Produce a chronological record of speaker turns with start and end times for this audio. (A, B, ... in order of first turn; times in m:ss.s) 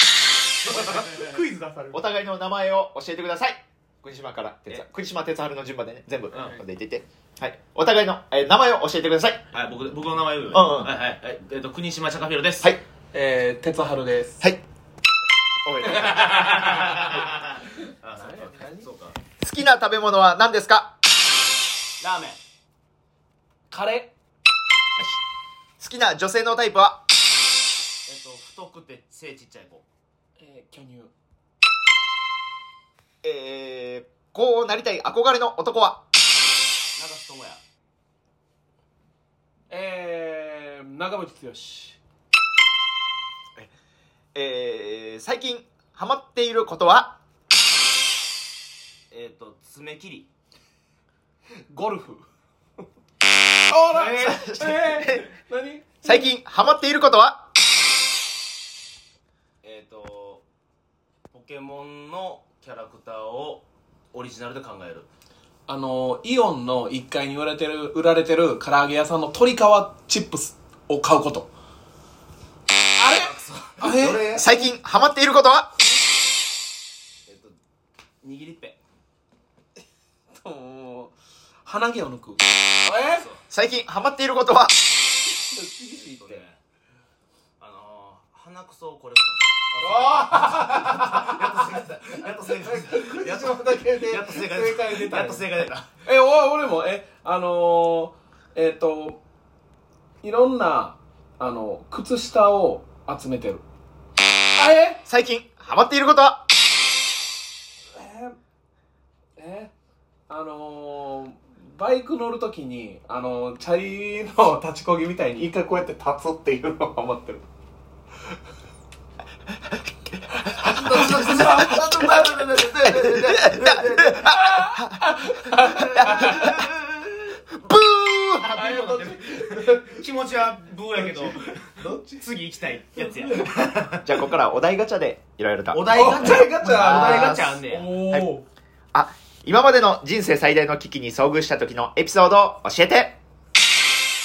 0:00.7-0:01.4 A
0:00.7-0:02.0 B
0:01.9-0:09.5 C
0:06.3-0:06.6 A
0:09.5-0:12.7 A
0:10.5-0:10.9 C
0:13.1-0:14.4 B
0:15.6-0:16.8 C
0:16.0-0:19.2 A
0:18.1-0:18.9 B
0:19.4-0:20.9 C
0:22.0-0:22.4 A
0:23.7-0:24.1 B
0:25.8-0:27.0 C
0:28.1-0:29.8 A
0:30.4-0:31.1 B
0:33.2-0:36.0 C
0:37.0-0:37.6 A
0:39.7-0:42.0 B
0:44.3-0:47.2 C
0:49.1-0:50.3 A
0:51.7-0:52.2 B
0:53.7-0:56.3 B
0:53.9-0:54.5 A
0:54.2-0:55.2 C
0:56.0-0:57.5 C
0:59.6-1:00.4 A
1:01.3-1:05.1 A
1:05.7-1:11.5 B
1:13.0-1:14.3 B
1:13.0-1:14.6 A
1:14.2-1:15.7 C
1:17.3-1:17.6 A
1:18.2-1:18.8 A
1:20.3-1:21.1 B
1:21.6-1:23.3 B
1:23.1-1:23.4 A
1:23.5-1:24.8 C
1:25.4-1:26.4 B
1:25.9-1:26.6 A
1:27.6-1:35.9 A
1:29.8-1:31.6 B
1:32.5-1:35.5 B
1:36.0-1:39.2 B
1:40.2-1:43.6 B
1:44.6-1:45.0 B
1:45.1-1:46.4 C
1:47.9-1:48.4 B
1:49.4-1:49.7 B
1:50.3-1:57.4 B
2:00.3-2:06.6 C
2:00.6-2:04.3 A
2:01.1-2:06.5 B
2:05.6-2:07.0 A
2:07.5-2:08.5 C
2:08.4-2:14.3 A
2:08.5-2:10.0 B
2:10.8-2:12.3 B
2:13.0-2:13.6 B
2:14.0-2:16.0 C
2:15.7-2:18.0 A
2:15.9-2:18.5 B
2:16.7-2:18.3 C
2:18.9-2:23.2 C